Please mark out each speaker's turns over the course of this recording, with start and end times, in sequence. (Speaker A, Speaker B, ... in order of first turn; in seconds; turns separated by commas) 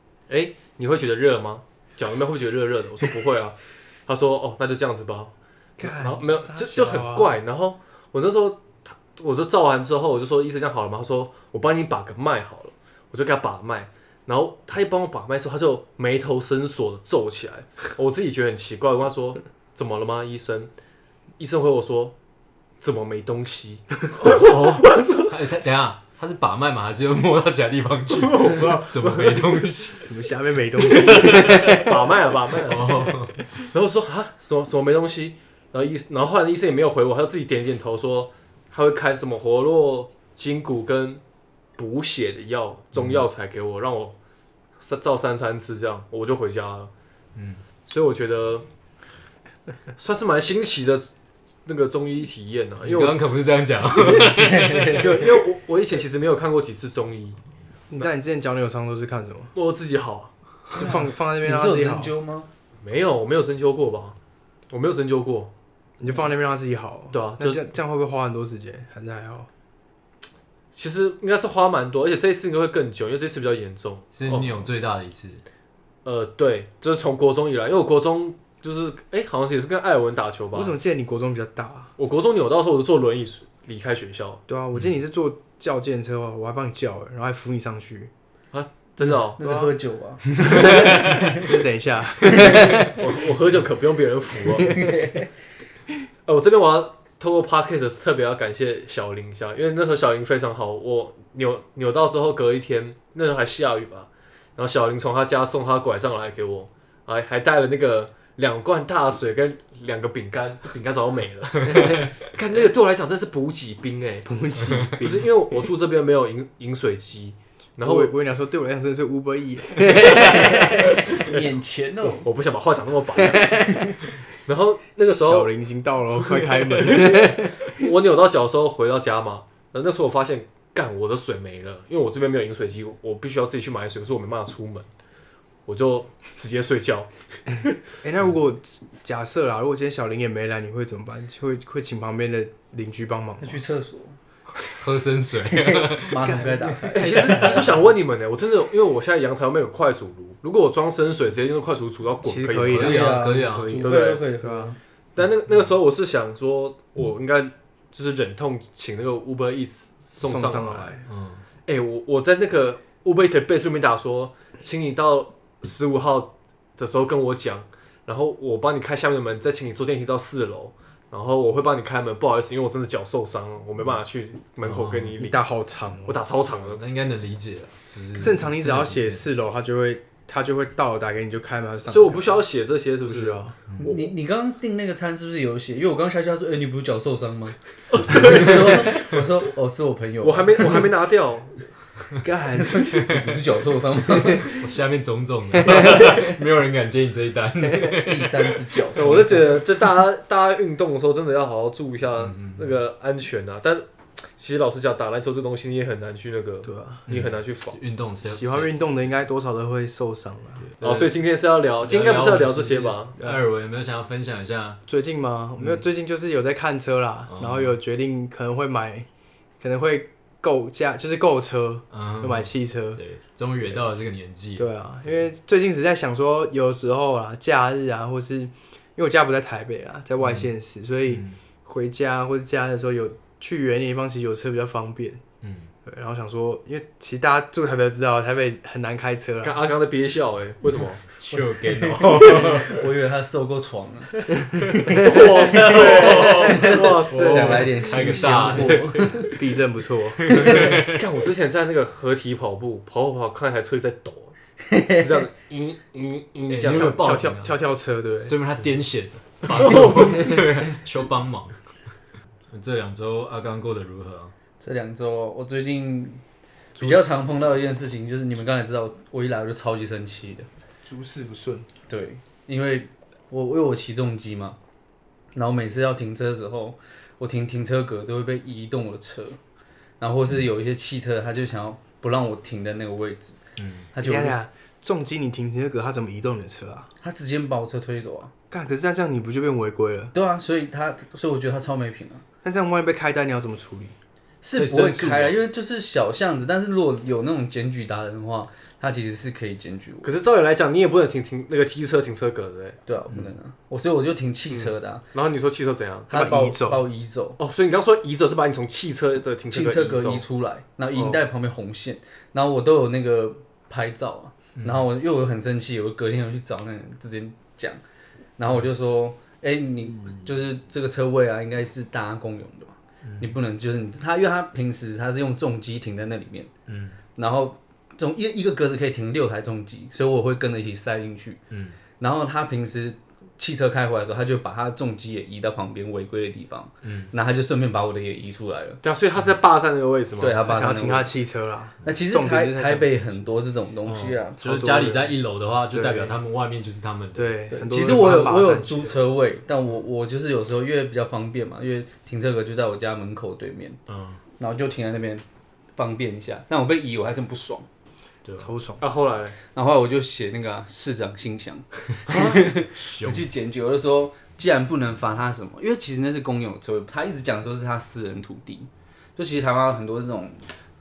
Speaker A: 0.3-20.7, Speaker B: 5.8-7.3, Speaker A: 21.4-22.1, Speaker A: 22.8-25.3, Speaker C: 24.2-30.1, Speaker A: 28.1-29.4, Speaker B: 29.9-32.0, Speaker C: 31.0-31.8, Speaker A: 31.1-41.2, Speaker C: 32.7-33.3, Speaker A: 41.8-44.1, Speaker C: 42.9-43.2, Speaker A: 44.8-46.9, Speaker C: 47.4-47.6, Speaker A: 47.9-48.6, Speaker A: 50.0-51.1, Speaker A: 51.6-53.3, Speaker C: 52.8-55.2, Speaker A: 54.0-57.4, Speaker D: 54.2-55.0, Speaker B: 57.9-59.5, Speaker A: 59.5-60.3, Speaker B: 60.7-62.1, Speaker D: 60.7-62.5, Speaker A: 62.8-64.2, Speaker A: 64.7-65.5, Speaker B: 66.0-69.5, Speaker A: 67.1-67.6, Speaker A: 70.7-74.7, Speaker C: 74.1-75.4, Speaker A: 76.0-80.8, Speaker B: 80.5-81.9, Speaker A: 82.0-84.4, Speaker B: 84.5-88.1, Speaker A: 88.5-89.4, Speaker D: 89.4-91.5, Speaker B: 89.4-89.7, Speaker B: 90.3-92.9, Speaker D: 92.2-92.6, Speaker A: 92.3-94.9, Speaker D: 94.6-95.3, Speaker A: 96.2-114.3, Speaker B: 114.2-115.3, Speaker A: 114.8-118.1, Speaker B: 117.8-121.0, Speaker D: 119.9-122.2, Speaker A: 122.2-125.5, Speaker B: 123.3-123.8, Speaker B: 125.0-127.8, Speaker A: 126.7-134.9, Speaker A: 135.7-137.1, Speaker B: 138.0-143.6, Speaker D: 143.4-144.2, Speaker C: 144.7-146.5, Speaker D: 145.5-147.7, Speaker B: 146.3-147.8, Speaker A: 146.9-153.1, Speaker B: 152.2-154.8, Speaker C: 152.7-153.8, Speaker D: 152.7-154.8, Speaker A: 153.8-154.2, Speaker A: 155.2-160.9, Speaker B: 160.2-161.0, Speaker C: 161.1-161.4, Speaker A: 161.7-175.4, Speaker C: 174.6-175.2, Speaker B: 175.2-176.2, Speaker A: 176.1-176.8, Speaker C: 176.6-179.3, Speaker B: 178.2-182.4, Speaker A: 181.8-184.1, Speaker B: 183.0-183.6, Speaker D: 183.8-190.9, Speaker C: 188.1-189.1, Speaker A: 188.3-188.7, Speaker A: 190.2-191.7, Speaker B: 192.2-193.3, Speaker D: 192.6-194.7, Speaker C: 194.2-199.3, Speaker B: 195.7-195.9, Speaker D: 195.7-196.4, Speaker D: 197.9-199.5, Speaker A: 198.9-203.8, Speaker C: 202.2-202.7, Speaker A: 204.4-207.8, Speaker B: 206.6-207.1, Speaker C: 207.1-208.7, Speaker B: 208.3-210.7, Speaker C: 210.6-211.1, Speaker A: 210.8-213.2, Speaker C: 211.8-214.8, Speaker B: 214.9-219.1, Speaker C: 217.3-217.8, Speaker B: 219.6-223.0, Speaker C: 221.9-224.7, Speaker B: 224.6-235.2, Speaker C: 230.2-230.5, Speaker C: 231.1-231.4, Speaker C: 235.4-235.7, Speaker B: 235.8-239.6, Speaker A: 239.4-241.0, Speaker C: 241.2-242.8, Speaker D: 242.0-249.2, Speaker A: 244.9-247.9, Speaker B: 244.9-245.4, Speaker C: 245.0-249.4, Speaker B: 249.2-250.6, Speaker C: 250.2-251.0, Speaker A: 250.3-257.2, Speaker C: 256.5-257.6, Speaker B: 256.7-258.3, Speaker C: 258.2-261.6, Speaker A: 259.5-260.4, Speaker C: 262.5-264.3, Speaker D: 264.6-266.2, Speaker D: 266.8-270.5, Speaker B: 266.8-267.2, Speaker B: 270.8-271.7, Speaker D: 271.9-274.6, Speaker D: 275.3-279.4, Speaker D: 280.0-283.4, Speaker C: 283.6-283.9, Speaker D: 283.9-284.4, Speaker B: 284.0-286.9, Speaker D: 287.0-288.3, Speaker B: 288.5-290.1, Speaker D: 290.1-292.2, Speaker B: 292.4-293.9, Speaker D: 294.4-300.1, Speaker C: 294.5-295.4, Speaker A: 300.0-302.8, Speaker D: 302.9-305.0, Speaker A: 304.5-306.1, Speaker B: 306.1-306.8, Speaker D: 306.1-307.4, Speaker A: 307.4-310.2, Speaker D: 309.5-317.8, Speaker A: 310.9-311.2, Speaker C: 314.6-314.9, Speaker D: 318.4-326.5, Speaker C: 323.0-323.3, Speaker C: 326.7-327.0, Speaker D: 327.1-331.4, Speaker C: 331.5-331.8, Speaker D: 332.0-338.8, Speaker C: 336.8-337.1, Speaker A: 338.8-340.4, Speaker D: 340.2-341.1, Speaker B: 340.4-343.3, Speaker D: 341.8-344.4, Speaker C: 343.8-347.4, Speaker B: 344.4-345.1, Speaker B: 345.7-346.2, Speaker B: 347.1-349.0, Speaker D: 347.5-353.8, Speaker C: 353.9-354.2, Speaker D: 354.4-355.2, Speaker D: 355.8-357.7, Speaker C: 358.2-358.5, Speaker B: 358.4-358.8, Speaker A: 358.8-359.4, Speaker D: 359.5-370.5, Speaker A: 362.1-362.4, Speaker C: 362.4-363.3